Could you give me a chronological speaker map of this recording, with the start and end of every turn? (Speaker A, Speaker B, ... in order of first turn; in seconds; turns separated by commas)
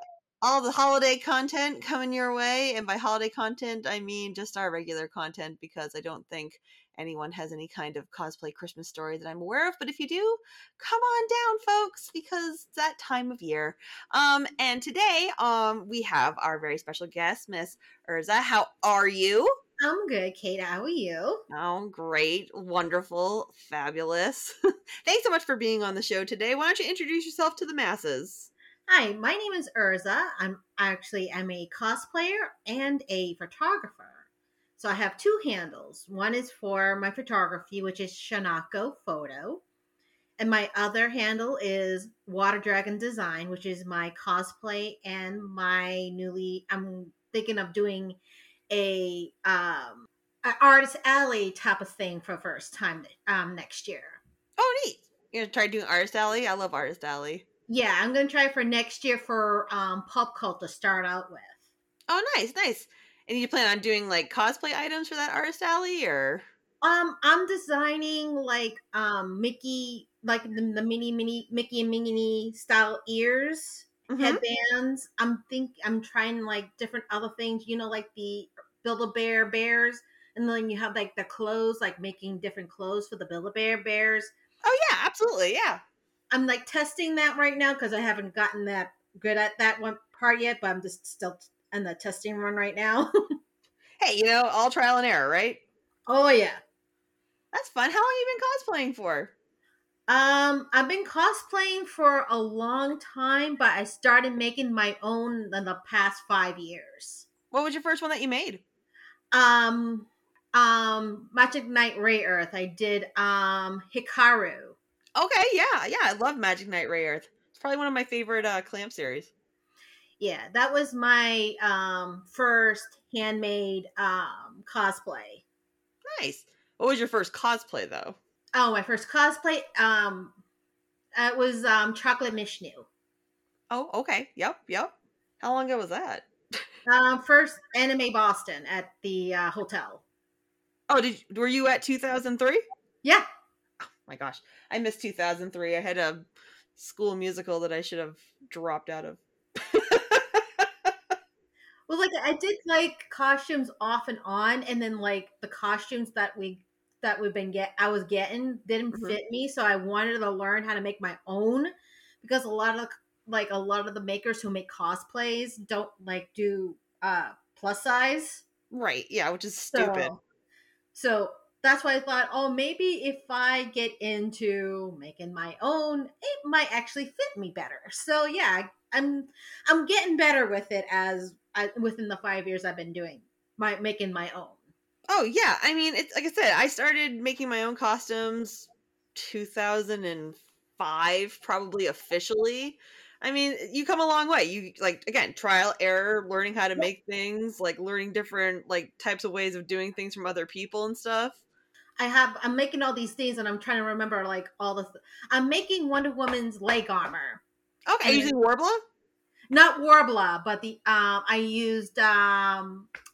Speaker A: 0.4-19.5, Speaker B: 19.8-21.4, Speaker A: 21.5-28.5, Speaker B: 28.9-34.2, Speaker B: 34.8-39.6, Speaker B: 40.4-48.2, Speaker B: 48.7-54.2, Speaker A: 54.6-57.4, Speaker B: 57.7-61.6, Speaker A: 62.1-66.4, Speaker B: 66.8-84.3, Speaker A: 74.1-74.4, Speaker A: 84.6-85.8, Speaker B: 86.3-93.1, Speaker A: 94.0-95.6, Speaker B: 96.1-96.6, Speaker A: 97.5-99.3, Speaker B: 100.1-107.3, Speaker A: 107.5-108.6, Speaker B: 109.3-114.8, Speaker A: 115.2-119.3, Speaker B: 120.2-125.4, Speaker A: 126.1-128.2, Speaker B: 128.5-130.3, Speaker B: 131.2-132.9, Speaker A: 133.7-136.2, Speaker B: 136.8-140.0, Speaker A: 140.9-142.6, Speaker A: 144.0-146.2, Speaker A: 146.8-150.9, Speaker B: 151.9-168.4, Speaker A: 158.9-159.2, Speaker A: 168.7-170.1, Speaker B: 169.7-170.2, Speaker B: 170.9-184.6, Speaker A: 185.1-201.4, Speaker B: 202.0-207.4, Speaker A: 207.9-208.8, Speaker B: 208.0-208.3, Speaker B: 209.5-212.9